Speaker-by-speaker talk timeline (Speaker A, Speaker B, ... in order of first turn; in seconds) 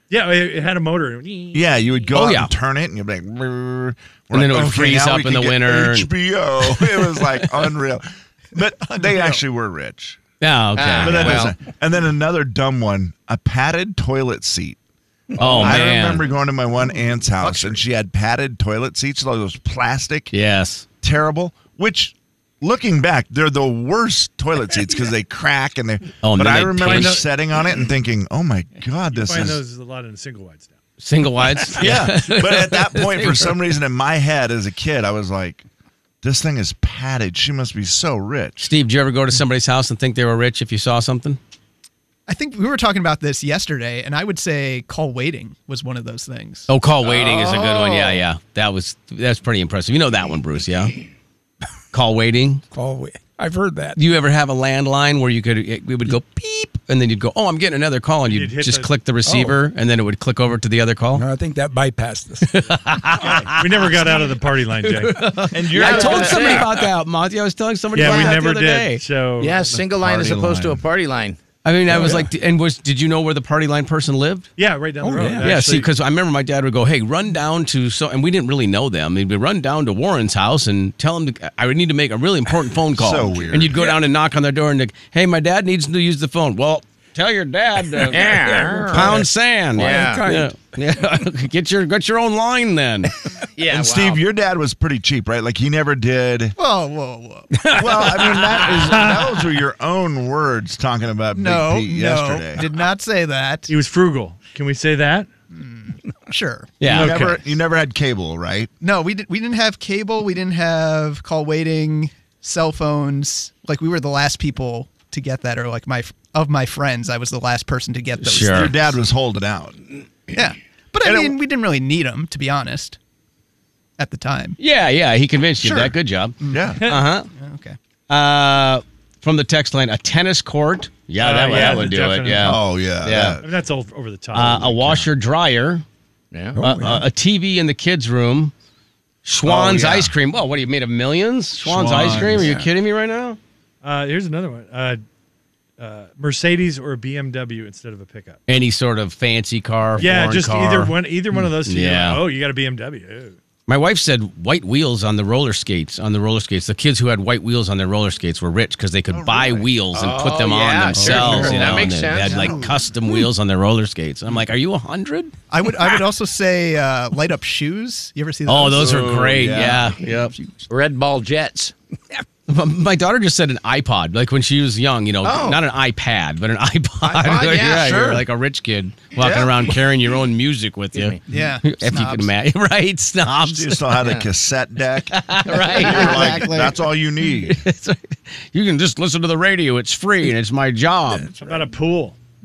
Speaker A: 0.1-1.6, 26.8-27.2, 29.1-30.7, 58.2-58.9, 63.5-65.5, 67.9-69.7, 74.6-75.9, 98.5-99.3, 103.7-105.3, 106.8-107.4, 131.2-132.6, 133.4-134.7, 143.8-145.0, 145.8-148.4, 150.0-153.4, 191.4-192.2
Speaker B: 1.5-10.2, 11.0-14.8, 15.4-20.3, 21.0-29.6, 31.7-35.6, 36.2-38.7, 65.5-66.7, 68.0-68.4, 69.8-70.8, 83.0-83.9, 93.7-96.6, 97.7-102.7, 106.9-108.7, 118.5-119.8, 121.0-121.4, 126.5-126.8, 132.4-133.5, 134.4-135.1, 139.4-140.1, 141.7-142.6, 159.1-160.3, 168.7-169.9, 179.2-179.8, 183.2-187.7
Speaker C: 2.1-2.5, 4.3-7.4, 10.4-11.5, 15.4-16.3, 20.3-20.9, 26.2-27.2, 31.0-33.6, 38.6-41.4, 46.7-51.0, 51.9-52.6, 54.0-61.3, 62.5-63.9, 64.8-69.0, 71.6-74.5, 75.4-93.1, 106.8-107.2, 118.2-118.8, 124.6-127.3, 128.1-133.4, 134.3-135.8, 136.6-138.5, 139.2-143.4, 148.5-150.9, 151.6-152.2, 153.7-165.3, 168.5-170.3, 172.5-183.9, 185.1-191.3
Speaker D: 8.8-9.4, 17.4-17.9, 42.3-46.7, 96.6-97.7, 101.3-103.7, 105.5-106.8, 108.8-119.0, 120.3-123.0, 124.0-124.6, 125.6-127.8, 162.1-162.8, 165.5-169.2, 181.3-182.3
Speaker E: 10.8-11.6, 47.0-48.2, 65.7-66.9, 69.4-71.4, 88.1-89.2, 89.8-90.2, 93.5-94.2, 136.3-136.6, 159.9-162.6, 170.7-171.7, 175.2-175.6, 177.0-178.2, 180.9-181.2, 184.0-184.3, 185.4-186.7
Speaker F: 52.7-54.0, 59.2-59.6, 61.1-63.6, 71.9-72.3, 75.0-75.5, 88.0-90.6, 136.6-137.1, 141.7-142.7, 161.0-161.9, 177.7-178.0